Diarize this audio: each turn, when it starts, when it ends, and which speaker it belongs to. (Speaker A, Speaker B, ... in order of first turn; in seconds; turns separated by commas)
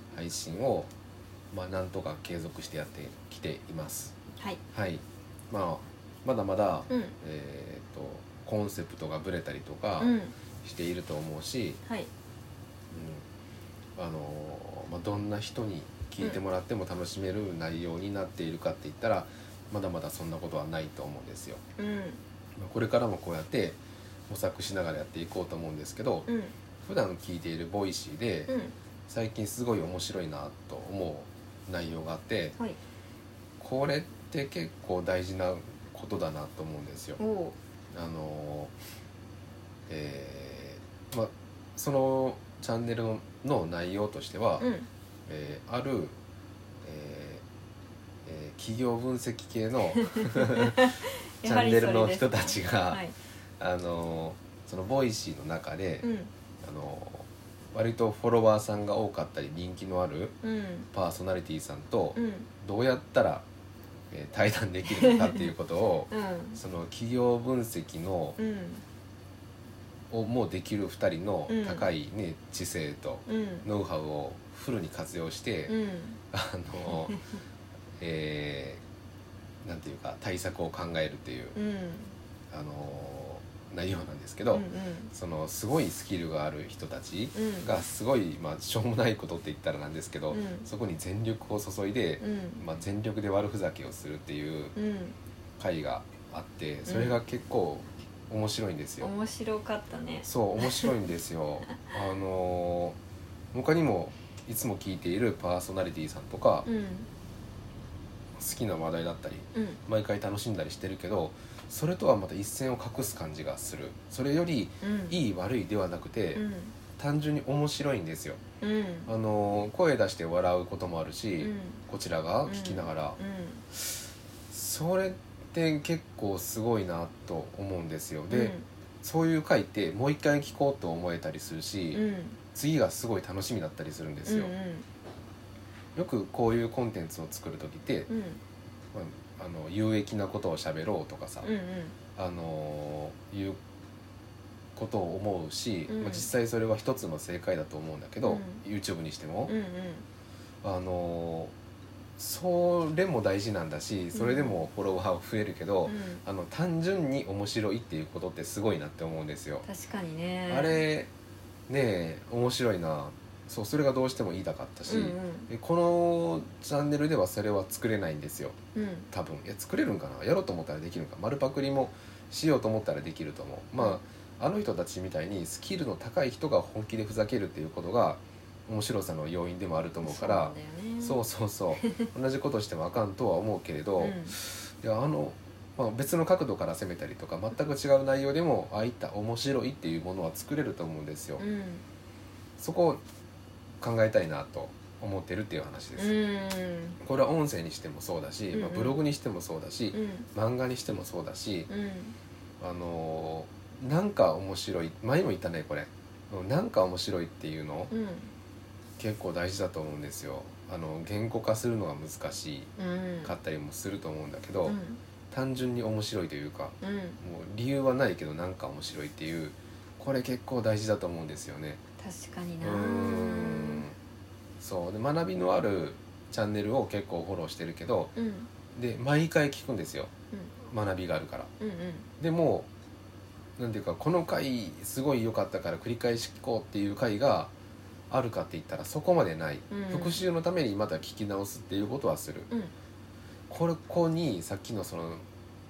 Speaker A: 0.1-0.9, Speaker A: 1.5-4.1, Speaker A: 4.7-11.8, Speaker B: 6.9-7.2, Speaker B: 10.0-10.3, Speaker A: 12.9-13.2, Speaker A: 13.9-21.6, Speaker B: 21.8-22.2, Speaker A: 22.6-26.3, Speaker B: 26.3-26.5, Speaker A: 26.9-28.5, Speaker B: 28.5-28.7, Speaker A: 29.1-32.5, Speaker A: 33.6-37.2, Speaker B: 37.2-37.5, Speaker A: 37.9-38.7, Speaker A: 39.9-44.7, Speaker B: 44.6-44.9, Speaker A: 45.3-46.1, Speaker A: 46.8-47.4, Speaker A: 48.2-53.0, Speaker B: 50.4-53.1, Speaker A: 53.6-56.1, Speaker B: 56.0-56.3, Speaker A: 56.6-60.4, Speaker B: 60.4-60.9, Speaker A: 60.9-63.5, Speaker B: 62.1-62.5, Speaker A: 64.1-68.4, Speaker B: 64.9-65.5, Speaker B: 66.1-66.6, Speaker B: 68.4-68.8, Speaker A: 70.1-75.7, Speaker B: 71.5-71.8, Speaker B: 73.3-73.7, Speaker B: 75.7-76.2, Speaker A: 76.3-77.2, Speaker A: 78.0-78.8, Speaker A: 79.6-81.6, Speaker B: 81.5-82.1, Speaker A: 82.5-94.8, Speaker B: 84.5-85.1, Speaker B: 87.3-87.7, Speaker B: 90.3-90.7, Speaker B: 92.2-92.6, Speaker B: 94.8-95.2, Speaker A: 95.6-99.1, Speaker B: 96.8-97.2, Speaker B: 99.0-100.9, Speaker A: 100.2-103.0, Speaker A: 103.5-106.7, Speaker B: 106.6-107.1, Speaker A: 108.4-116.4, Speaker B: 109.5-109.8, Speaker B: 114.8-115.2, Speaker B: 116.3-116.7, Speaker A: 117.0-118.4, Speaker B: 118.6-119.1, Speaker A: 119.0-123.2, Speaker B: 121.4-121.8, Speaker B: 122.4-123.6, Speaker A: 124.5-134.5, Speaker B: 128.3-128.6, Speaker B: 131.9-132.4, Speaker B: 134.2-134.8, Speaker A: 135.9-138.1, Speaker B: 138.1-138.4, Speaker A: 138.9-141.5, Speaker B: 141.4-141.9, Speaker A: 142.2-143.6, Speaker A: 144.8-149.5, Speaker B: 145.9-146.3, Speaker B: 148.2-148.6, Speaker B: 149.4-150.0, Speaker A: 150.6-151.5, Speaker A: 152.2-159.7, Speaker B: 154.1-154.6, Speaker B: 155.8-156.2, Speaker B: 159.6-160.8, Speaker A: 160.5-161.1, Speaker A: 161.7-168.6, Speaker B: 164.9-165.5, Speaker B: 168.7-169.1, Speaker A: 169.1-191.4, Speaker B: 180.0-181.2, Speaker B: 181.8-182.1, Speaker B: 184.0-184.3, Speaker B: 191.4-191.8, Speaker A: 192.6-193.0, Speaker A: 193.8-196.2, Speaker B: 195.9-197.0, Speaker A: 197.0-201.7, Speaker B: 198.5-199.0, Speaker B: 199.9-200.3, Speaker B: 201.7-202.1, Speaker A: 202.6-207.9, Speaker B: 207.9-208.3, Speaker A: 209.0-212.7, Speaker B: 212.8-213.3, Speaker A: 213.2-214.8, Speaker B: 214.6-215.0, Speaker A: 215.3-221.8, Speaker B: 216.8-217.2, Speaker B: 222.0-223.8, Speaker A: 222.6-223.9, Speaker A: 224.6-228.1, Speaker B: 228.1-228.5, Speaker A: 228.7-230.1, Speaker A: 230.7-231.5, Speaker B: 231.6-232.1, Speaker A: 232.2-232.7, Speaker A: 233.6-237.5, Speaker A: 238.1-242.5, Speaker B: 239.7-240.2, Speaker A: 243.5-245.2